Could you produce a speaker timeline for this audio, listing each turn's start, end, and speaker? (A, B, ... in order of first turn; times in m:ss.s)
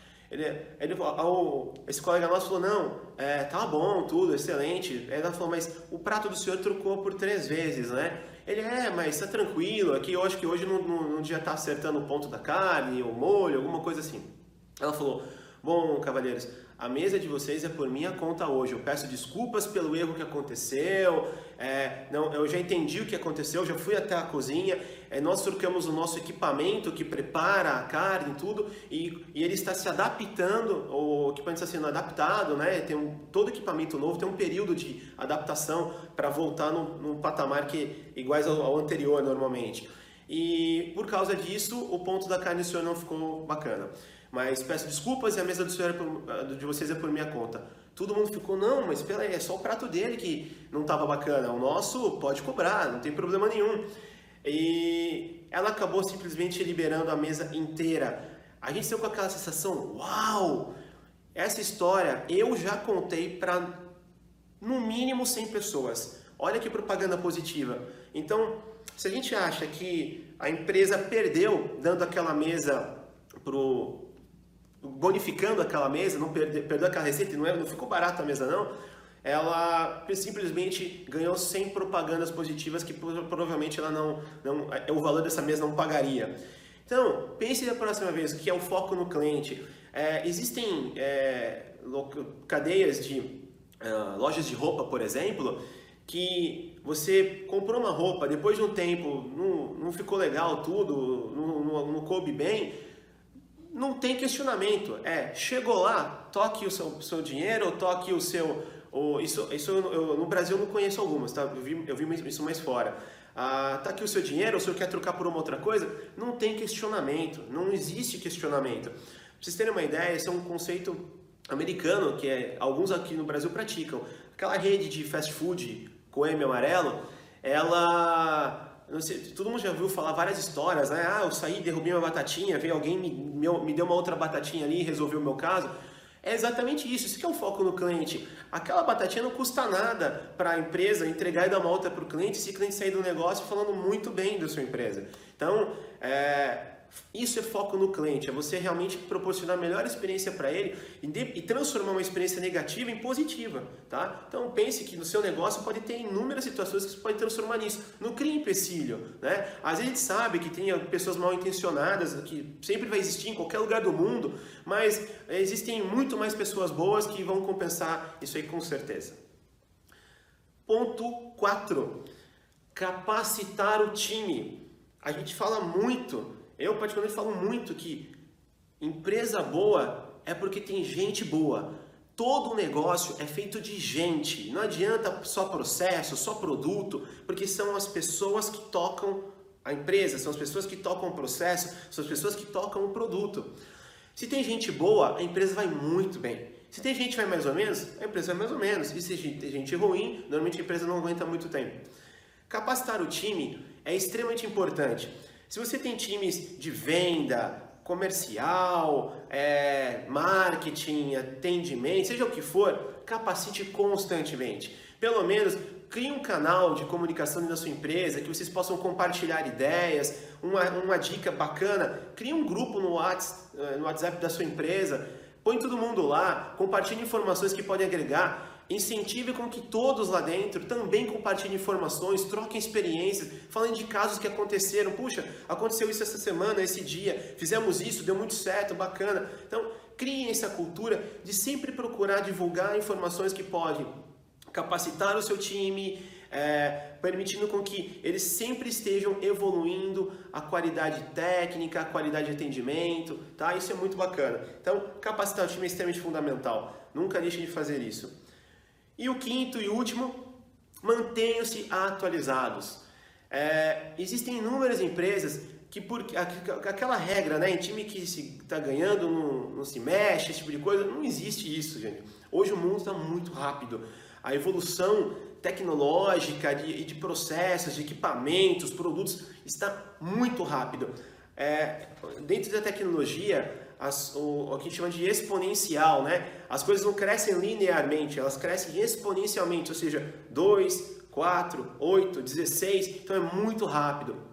0:00.3-0:53.8 A
0:54.4-1:00.7 A
1:01.4-1:03.8 A
1:04.6-1:12.9 A
1:13.4-1:14.1 A
1:14.8-1:18.7 A
1:19.2-1:26.3 A
1:26.9-1:42.7 A
1:43.7-2:49.2 A
2:50.7-2:52.0 A
2:52.7-2:58.1 A
2:58.8-3:13.5 A
3:14.2-3:21.8 A
3:22.5-4:03.9 A
4:04.5-4:18.1 A
4:19.0-4:20.2 A
4:20.8-4:54.2 A